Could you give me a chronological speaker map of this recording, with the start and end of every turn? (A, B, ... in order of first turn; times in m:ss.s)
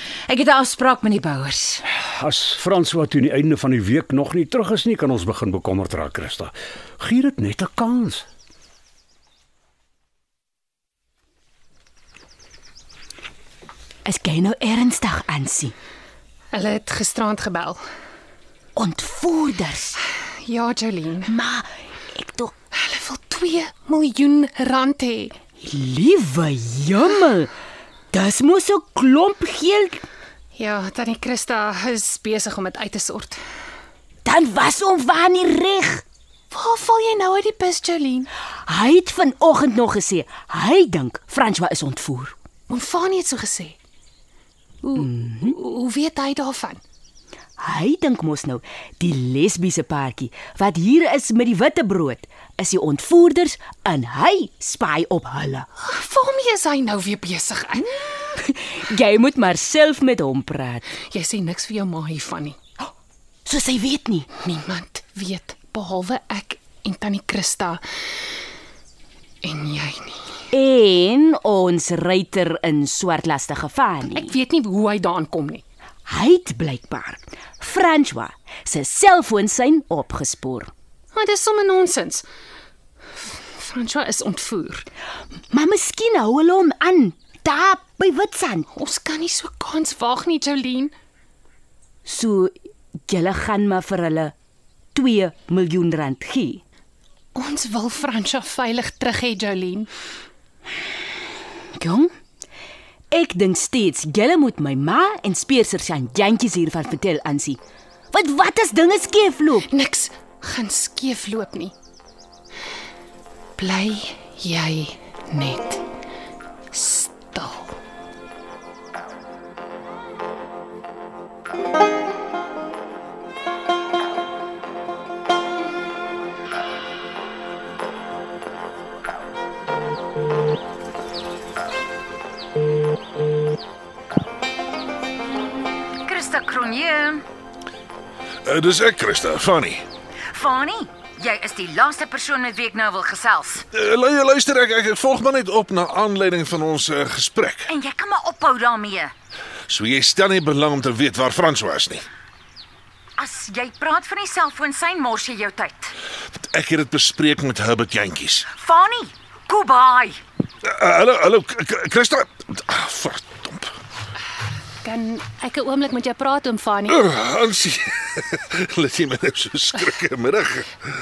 0:00.3-0:01.8 A
0:02.0-0:08.2 B
0:14.0-0:15.7 C
0:16.5-0:17.8 D
0:18.8-0:20.0 C
0:20.4-0:21.3 D
0:21.3-0:22.5 C
0:22.8-0:25.3 D
0:25.6-0:27.5 C
0:28.1-0:30.0 C
0:30.6-0:33.4 D
0:34.2-0:36.0 C
0:36.5-0:38.3 D
0:38.7-0:42.4 C
0:42.7-0:43.8 D
0:44.8-0:46.8 D
0:45.0-0:45.6 C
0:47.6-0:55.7 C
0:55.8-0:58.0 D
0:58.4-1:00.9 C
1:01.1-1:02.6 D
1:03.4-1:04.3 C
1:04.4-1:07.8 D
1:09.4-1:10.2 D
1:10.5-1:14.3 C
1:14.2-1:15.6 D
1:16.1-1:20.7 C
1:21.1-1:22.2 D
1:23.5-1:24.8 D
1:25.5-1:28.7 C
1:28.7-1:30.9 D
1:32.1-1:32.5 C
1:33.1-1:34.3 C
1:35.0-1:36.6 C
1:37.4-1:39.9 D
1:41.8-1:42.1 C
1:43.1-1:47.6 C
1:48.1-1:49.7 C
1:49.7-1:51.7 D
1:53.6-1:55.8 D
1:56.7-1:57.8 D
2:16.0-2:17.2 A
2:18.5-2:19.8 E
2:20.3-2:23.7 A
2:23.7-2:27.7 E
2:27.7-2:29.1 A
2:29.7-2:32.0 E
2:33.2-2:35.9 A
2:36.5-2:38.4 E
2:38.5-2:40.2 A
2:40.7-2:43.7 E
2:44.8-2:47.0 D
2:46.9-2:50.6 E